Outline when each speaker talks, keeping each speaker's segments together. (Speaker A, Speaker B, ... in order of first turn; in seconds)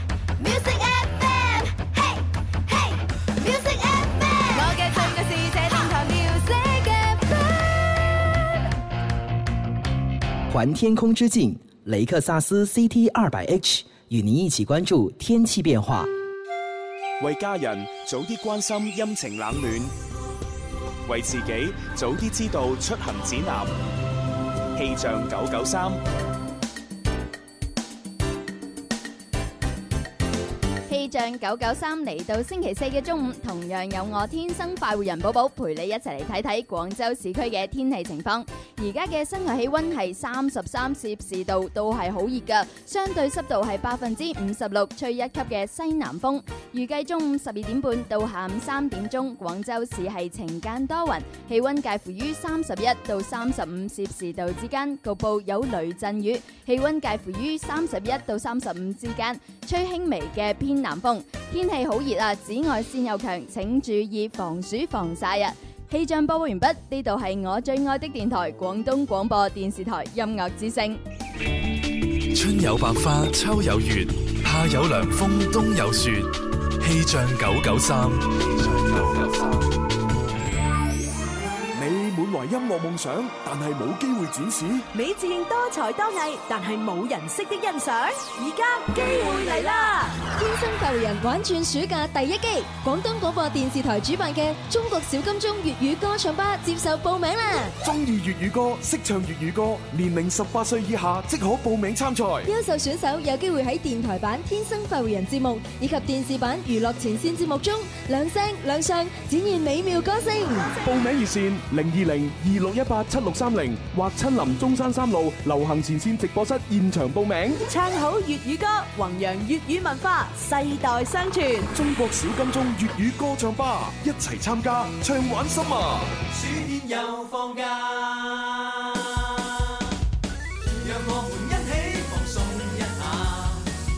Speaker A: 0.4-1.7, 3.4-7.4, 84.9-90.3, 117.7-121.7
Speaker B: 10.5-16.1
Speaker C: 17.2-19.9, 21.0-23.8, 24.7-26.0
Speaker D: 30.9-71.0
Speaker E: 72.3-79.8
Speaker F: 81.7-84.8, 97.8-102.5, 110.8-117.6, 121.7-126.1
Speaker G: 90.3-97.8, 102.4-110.7
Speaker H: 126.2-129.5, 130.7-133.6